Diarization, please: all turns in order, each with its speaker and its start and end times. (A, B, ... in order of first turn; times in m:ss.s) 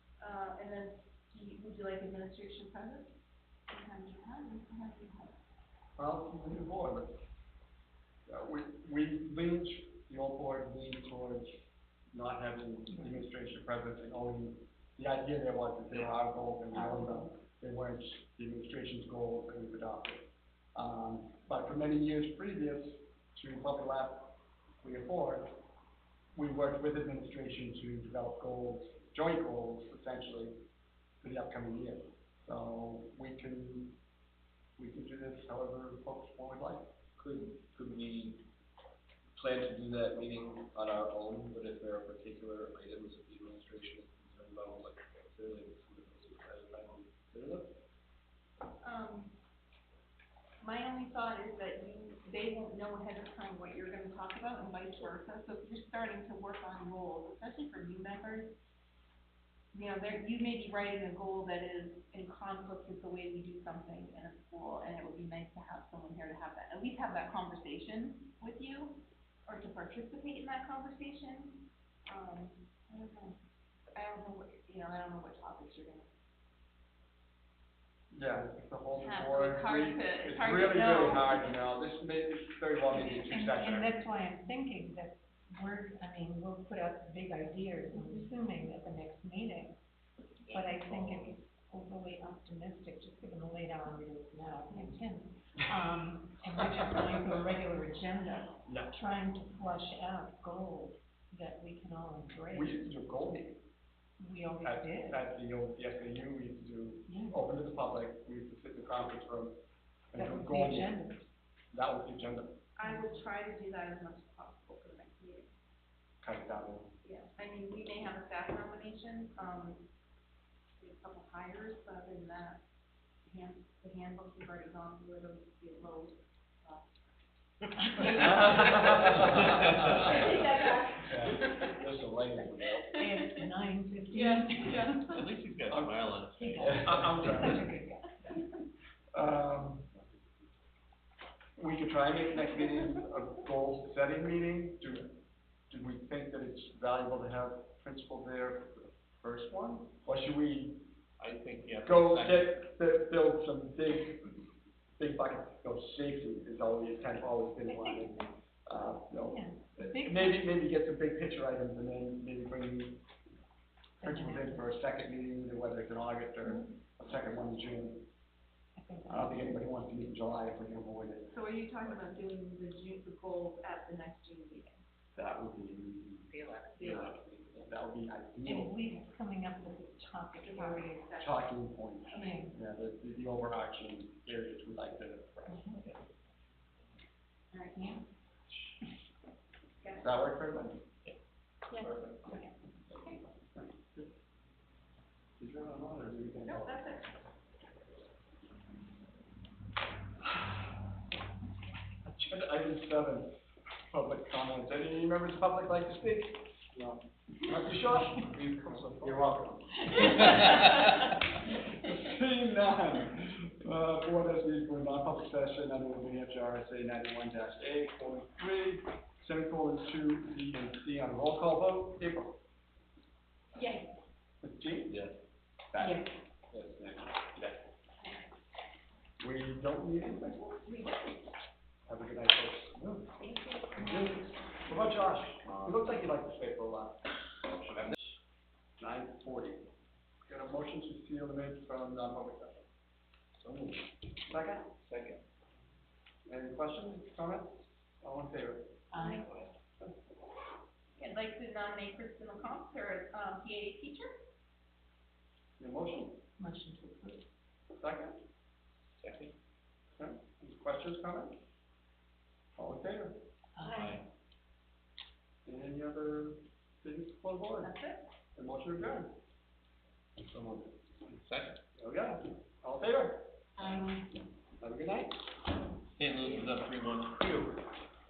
0:00.2-0:03.2 A
0:03.7-0:05.4 A
0:06.0-0:07.2 B
0:08.3-0:11.6 B
0:12.1-0:25.5 B
0:12.9-0:13.2 C
0:16.7-0:17.2 C
0:26.3-0:30.5 B
0:31.2-0:34.0 B
0:34.8-0:36.8 B
0:37.2-0:38.4 D
0:39.3-0:47.7 D
0:48.8-0:49.3 A
0:50.6-0:58.5 A
0:59.7-1:13.4 A
1:13.9-1:16.1 A
1:18.1-1:23.9 B
1:18.9-1:21.5 A
1:23.1-1:29.8 C
1:27.9-1:28.3 A
1:30.5-1:31.3 D
1:30.5-1:42.8 C
1:34.7-1:35.0 A
1:38.6-1:39.0 B
1:42.5-1:43.6 B
1:44.2-1:45.2 C
1:44.6-1:49.5 B
1:47.1-1:47.3 C
1:50.1-1:51.0 B
1:50.1-1:51.3 C
1:51.7-1:52.6 B
1:52.8-1:55.5 A
1:56.2-1:56.9 B
1:57.0-1:59.8 A
2:00.8-2:02.6 A
2:03.2-2:07.0 A
2:07.8-2:08.5 C
2:07.9-2:11.8 A
2:08.1-2:10.3 B
2:09.2-2:09.9 E
2:11.0-2:12.8 B
2:12.8-2:13.4 A
2:13.0-2:15.2 C
2:14.1-2:15.3 A
2:15.0-2:17.5 E
2:15.7-2:16.1 B
2:16.3-2:18.1 C
2:16.6-2:17.6 B
2:19.1-2:19.9 B
2:21.6-2:25.1 B
2:25.7-2:30.8 B
2:31.2-2:32.5 E
2:31.8-2:34.3 B
2:35.0-2:43.0 B
2:37.6-2:38.3 C
2:39.3-2:40.4 C
2:44.0-2:48.0 B
2:44.0-2:44.7 C
2:48.8-2:49.4 C
2:49.1-2:51.3 B
2:51.3-2:54.8 A
2:55.2-2:58.7 B
2:56.4-2:57.5 D
2:56.8-2:57.1 A
2:58.4-3:01.2 C
3:00.4-3:01.4 A
3:01.2-3:05.7 B
3:02.1-3:02.5 A
3:02.1-3:02.5 C
3:05.5-3:05.8 C
3:07.5-3:07.9 A
3:07.7-3:08.0 C
3:09.8-3:10.1 A
3:10.0-3:10.8 B
3:11.7-3:12.3 E
3:11.7-3:12.4 A
3:12.9-3:13.2 A
3:13.6-3:14.1 B
3:15.4-3:16.7 B
3:16.4-3:17.1 A
3:22.0-3:23.3 B
3:23.9-3:30.1 B
3:28.2-3:29.2 D
3:29.9-3:30.6 C
3:31.8-3:42.4 B
3:43.6-3:43.8 A
3:44.4-3:45.0 B
3:44.9-3:45.1 D
3:45.7-3:46.1 B
3:45.8-3:46.1 C
3:46.5-3:47.1 D
3:49.2-3:50.8 B
3:51.9-3:53.1 B
3:53.2-3:53.8 A
3:53.7-3:58.0 B
3:55.5-3:55.8 E
3:57.7-3:58.0 E
3:58.8-3:59.7 B
4:00.3-4:02.6 B
4:03.4-4:03.8 D
4:04.3-4:04.7 B
4:04.8-4:05.2 E
4:06.3-4:08.7 B
4:08.9-4:09.2 C
4:09.2-4:09.5 E
4:11.0-4:14.1 A
4:15.6-4:16.2 B
4:16.4-4:17.2 C
4:17.8-4:18.2 B
4:19.0-4:19.3 E
4:20.0-4:21.4 B
4:22.6-4:23.1 B
4:23.6-4:23.9 C
4:23.6-4:24.0 E
4:25.4-4:27.7 B
4:27.6-4:28.0 A
4:28.4-4:29.1 B
4:30.4-4:30.7 D
4:31.0-4:31.6 E
4:31.8-4:33.2 B
4:33.6-4:34.0 C
4:34.6-4:35.2 B
4:36.0-4:37.6 E